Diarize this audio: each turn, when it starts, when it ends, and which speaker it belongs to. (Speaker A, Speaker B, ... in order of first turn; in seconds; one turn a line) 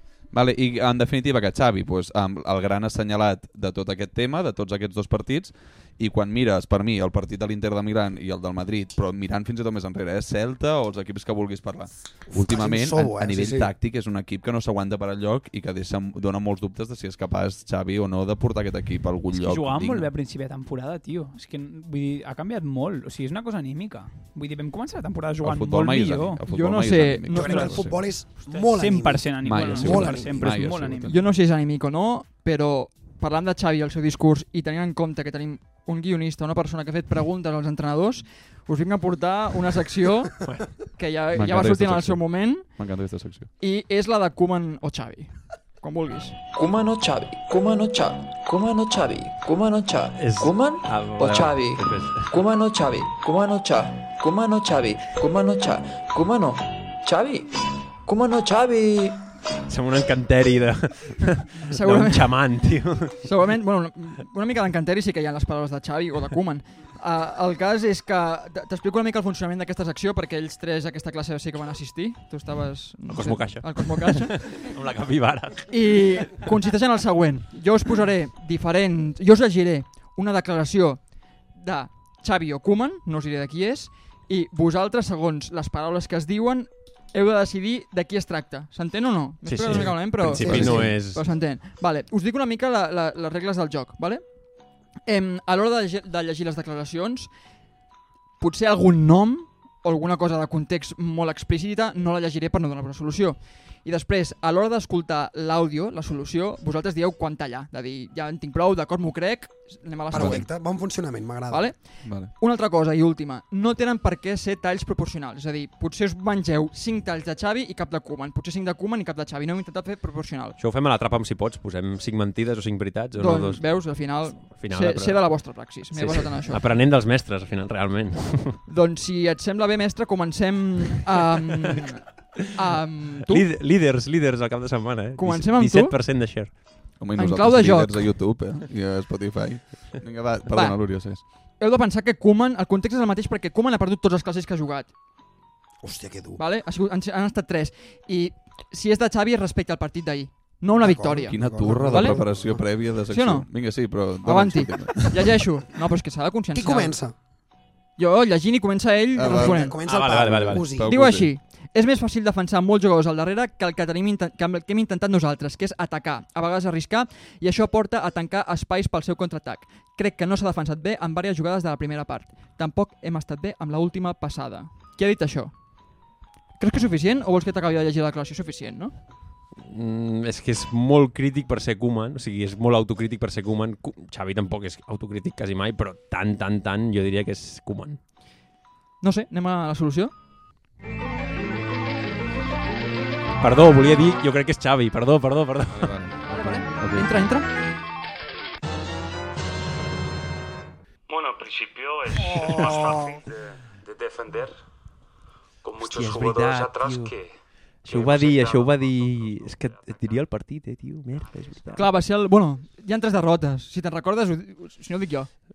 Speaker A: 0.3-20.1
Speaker B: 12.3-13.7
Speaker C: 19.3-26.4
Speaker A: 25.4-28.0
Speaker D: 26.5-27.8
Speaker B: 27.3-30.8
Speaker C: 27.5-31.1
Speaker A: 29.4-31.3
Speaker D: 31.1-42.7
Speaker A: 41.3-43.5
Speaker D: 43.6-46.4
Speaker E: 46.5-59.2
Speaker F: 50.1-52.3
Speaker F: 59.7-63.2
Speaker D: 61.7-62.5
Speaker D: 63.2-74.6
Speaker F: 73.1-76.3
Speaker D: 75.7-94.3
Speaker F: 89.4-91.2
Speaker A: 89.7-91.0
Speaker D: 95.0-97.3
Speaker D: 98.4-110.5
Speaker B: 110.1-111.7
Speaker A: 110.1-110.5
Speaker D: 111.5-120.6
Speaker A: 112.0-112.3
Speaker F: 120.6-128.6
Speaker D: 123.2-126.6
Speaker D: 128.7-132.0
Speaker D: 132.5-133.5
Speaker F: 133.2-136.6
Speaker D: 135.2-136.0
Speaker A: 137.0-141.2
Speaker D: 137.2-138.1
Speaker D: 140.5-141.0
Speaker D: 141.6-144.9
Speaker B: 145.8-146.4
Speaker D: 146.4-152.2
Speaker B: 150.7-152.6
Speaker A: 151.2-155.4
Speaker D: 153.1-153.5
Speaker D: 154.2-157.0
Speaker B: 156.5-157.1
Speaker D: 158.0-159.8
Speaker A: 159.1-161.3
Speaker B: 159.2-160.9
Speaker F: 159.8-160.7
Speaker D: 160.8-175.6
Speaker D: 176.6-178.9
Speaker F: 179.6-188.0
Speaker D: 189.0-190.1
Speaker F: 193.4-195.9
Speaker A: 195.7-197.3
Speaker D: 196.3-197.5
Speaker G: 201.1-204.5
Speaker F: 202.5-202.8
Speaker G: 205.6-207.3
Speaker F: 205.8-207.1
Speaker F: 207.8-211.9
Speaker G: 207.9-210.1
Speaker D: 211.7-215.3